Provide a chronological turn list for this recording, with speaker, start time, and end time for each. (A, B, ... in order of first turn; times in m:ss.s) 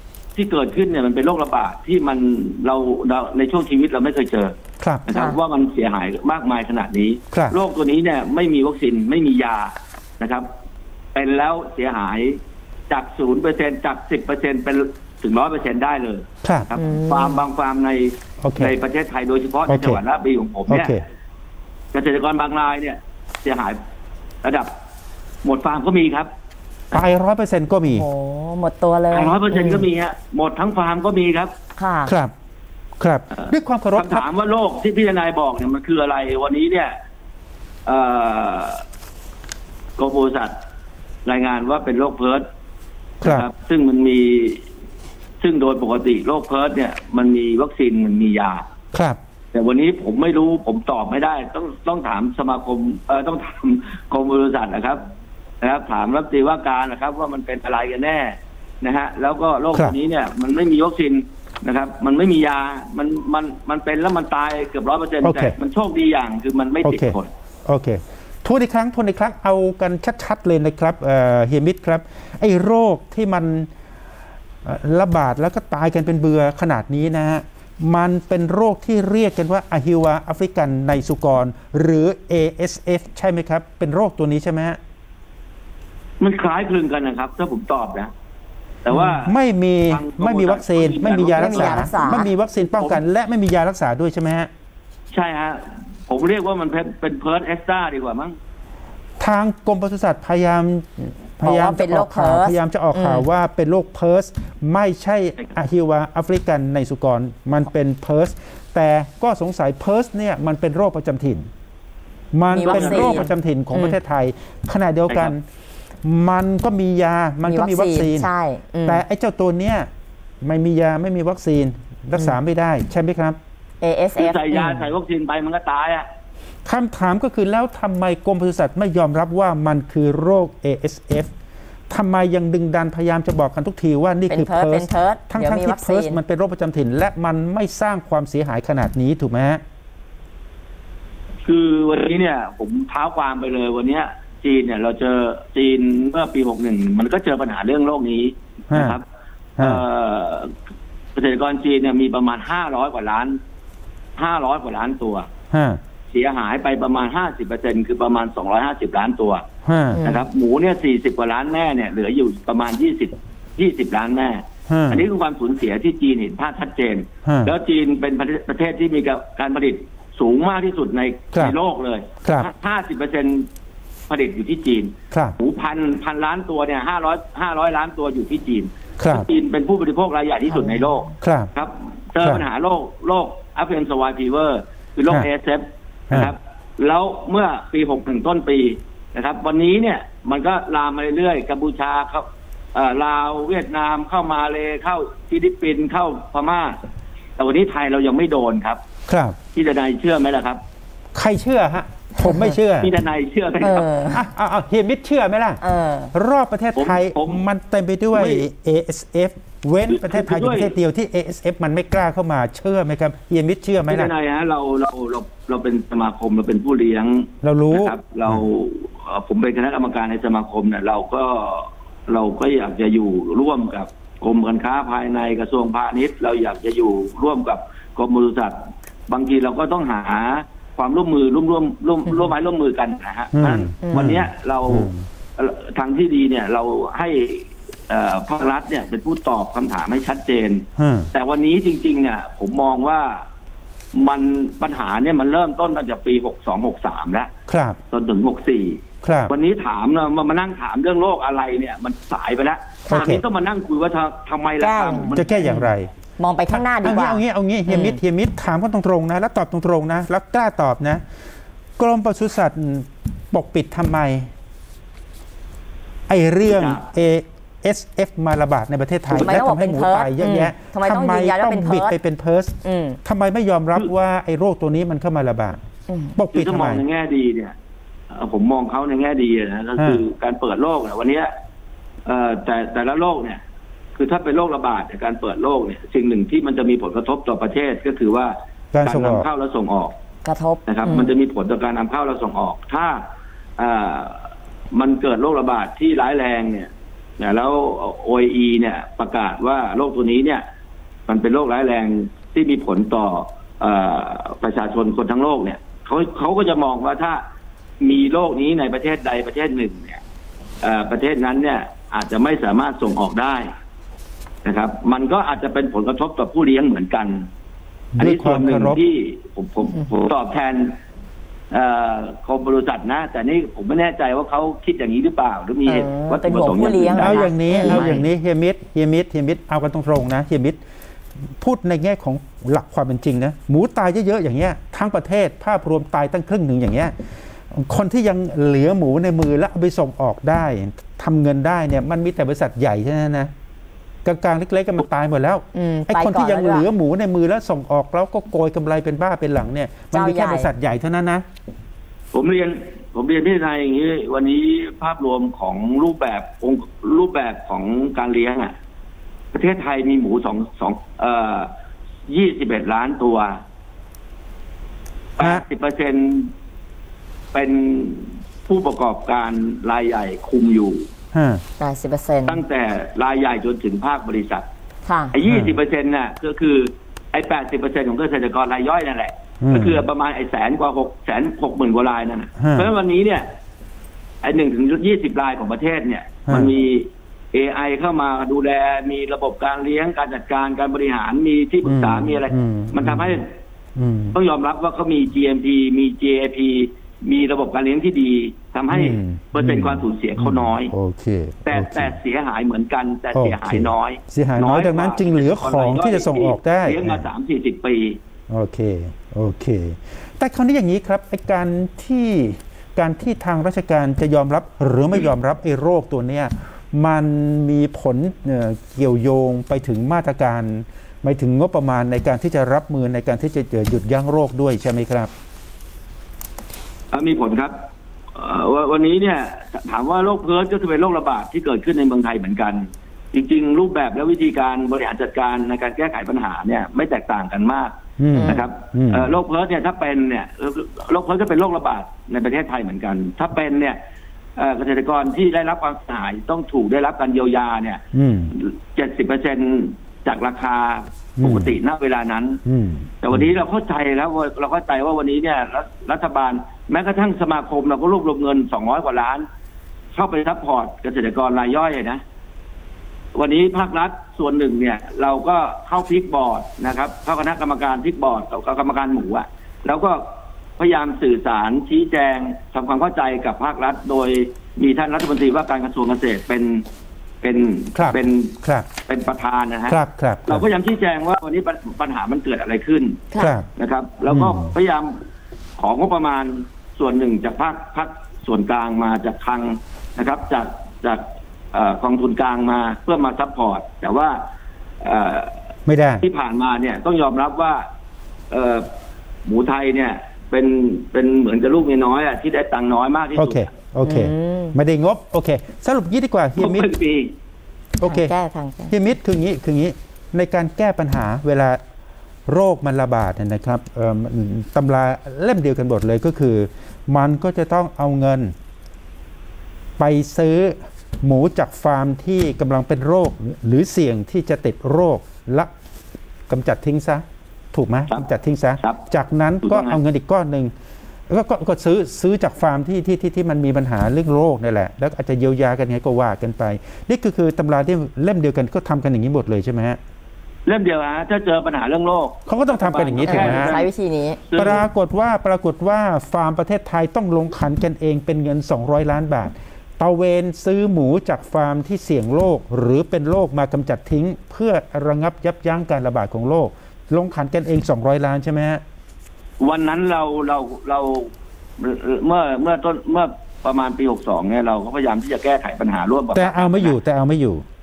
0:00.4-0:04.6 A
0:04.8-0:05.1 B
0:05.1-0:10.5 A
0:11.2-0:21.0 A
0:16.4-0:16.7 B
0:16.8-0:17.4 C
0:18.4-0:18.8 B
0:19.7-0:20.0 B
0:20.7-0:21.0 B
0:21.9-0:23.8 A
0:24.4-0:24.7 A
0:25.4-0:26.3 A
0:26.9-0:28.1 B
0:27.9-0:29.8 C
0:29.1-0:31.5 A
0:31.8-0:32.1 C
0:32.1-0:32.3 B
0:33.0-0:34.2 B
0:33.4-0:36.9 A
0:37.9-0:38.8 A
0:40.0-0:40.5 A
0:41.2-0:42.4 A
0:43.2-0:43.5 B
0:43.2-0:44.6 A
0:45.4-0:48.6 A
0:48.9-0:49.2 B
0:49.5-0:55.0 A
0:55.6-1:07.3 A
1:05.2-1:05.6 B
1:06.8-1:13.7 B
1:14.6-1:24.8 B
1:26.2-1:28.1 A
1:28.8-1:29.4 A
1:29.2-1:34.5 B
1:29.9-1:32.1 A
1:31.3-1:32.3 C
1:32.7-1:33.0 A
1:35.1-1:38.4 A
1:39.2-1:51.5 B
1:41.4-1:43.3 C
1:52.3-1:55.4 B
1:52.5-1:54.0 C
1:52.6-1:53.3 A
1:55.1-1:55.3 A
1:56.0-1:58.3 B
1:57.5-1:59.0 C
1:58.8-1:59.9 B
2:00.4-2:03.4 B
2:03.8-2:04.8 C
2:04.2-2:06.1 A
2:06.6-2:11.3 B
2:11.9-2:19.6 B
2:14.3-2:16.2 C
2:21.4-2:29.0 A
2:28.7-2:29.0 B
2:29.6-2:29.8 B
2:29.6-2:30.5 A
2:31.2-2:33.4 A
2:34.2-2:35.3 A
2:35.5-2:35.8 B
2:36.1-2:39.5 A
2:39.6-2:40.0 B
2:39.9-2:40.2 C
2:40.0-2:53.5 A
2:44.7-2:45.1 B
2:47.2-2:47.6 B
2:52.2-2:52.5 B
2:54.1-3:16.8 A
2:59.0-2:59.3 B
3:01.2-3:01.5 B
3:17.4-3:18.8 A
3:19.1-3:19.4 B
3:19.5-3:20.6 A
3:21.1-3:22.9 B
3:22.2-3:22.5 C
3:22.8-3:23.9 A
3:23.6-3:24.2 C
3:24.1-3:25.6 B
3:25.6-3:26.1 C
3:26.1-3:34.1 B
3:26.8-3:27.4 A
3:28.1-3:28.4 A
3:29.9-3:30.8 A
3:33.9-4:03.2 A
3:37.4-3:38.4 B
3:53.3-3:55.1 B
4:00.8-4:01.1 B
4:03.9-4:07.3 A
4:07.5-4:07.8 B
4:07.9-4:15.7 A
4:09.0-4:09.3 B
4:12.9-4:13.2 B
4:14.6-4:15.2 C
4:15.1-4:15.9 B
4:16.2-4:18.0 C
4:16.5-4:21.0 B
4:21.8-4:24.3 B
4:26.1-4:35.6 B
4:26.4-4:26.8 A
4:29.1-4:32.0 C
4:32.6-4:33.0 C
4:35.9-4:36.2 C
4:36.2-4:36.8 B
4:36.3-4:37.6 A
4:38.1-4:41.3 A
4:39.8-4:40.0 B
4:42.1-4:43.4 A
4:44.0-4:50.0 A
4:48.7-4:49.3 B
4:50.2-4:51.1 C
4:50.7-4:53.0 A
4:53.6-5:00.4 A
5:01.1-5:07.2 A
5:07.8-5:10.0 A
5:10.6-5:13.5 A
5:14.4-5:17.3 A
5:18.0-5:18.8 B
5:18.0-5:20.8 A
5:21.5-5:28.0 A
5:25.6-5:28.1 C
5:27.0-5:30.6 B
5:31.4-5:43.3 B
5:44.0-5:51.2 B
5:45.5-5:46.7 C
5:49.9-5:50.5 C
5:52.1-5:58.5 A
5:59.3-6:01.5 A
6:02.1-6:03.4 A
6:05.2-6:06.3 A
6:05.2-6:05.4 B
6:07.3-6:10.9 A
6:11.1-6:11.4 B
6:11.6-6:12.4 C
6:12.2-6:14.5 A
6:14.9-6:15.1 C
6:15.1-6:23.3 A
6:15.2-6:15.6 B
6:19.4-6:19.8 B
6:22.4-6:22.7 B
6:24.2-6:33.3 A
6:26.3-6:26.5 B
6:31.6-6:33.2 B
6:33.8-6:34.2 B
6:34.1-6:40.7 A
6:38.7-6:42.0 B
6:41.5-6:48.0 A
6:43.1-6:47.1 B
6:48.3-7:05.1 B
7:06.9-7:07.5 A
7:08.1-7:23.8 A
7:18.0-7:19.1 B
7:18.1-7:18.4 C
7:24.4-7:27.8 A
7:27.9-7:28.4 B
7:28.3-7:32.4 A
7:31.2-7:31.5 B
7:32.5-7:33.3 B
7:33.0-7:39.2 A
7:40.0-7:42.0 A
7:43.1-7:50.0 A
7:50.6-7:56.6 A
7:57.2-8:03.0 A
7:57.8-7:58.7 B
7:59.7-8:00.4 B
8:03.2-8:03.5 B
8:03.6-8:05.0 A
8:04.1-8:04.5 B
8:05.6-8:14.2 A
8:14.8-8:15.5 A
8:15.6-8:16.0 B
8:16.0-8:17.6 A
8:18.3-8:18.7 A
8:19.2-8:23.5 A
8:23.2-8:26.7 B
8:23.8-8:24.6 C
8:26.4-8:27.1 A
8:27.8-8:28.1 B
8:27.8-8:28.8 C
8:28.7-8:31.6 B
8:32.3-8:38.3 B
8:39.8-8:45.5 B
8:46.3-8:50.5 B
8:49.4-8:49.8 A
8:51.1-8:59.8 B
9:00.5-9:03.7 A
9:02.3-9:03.6 B
9:03.0-9:04.2 C
9:04.3-9:04.6 A
9:04.4-9:18.6 B
9:19.4-9:26.8 A
9:26.1-9:27.4 B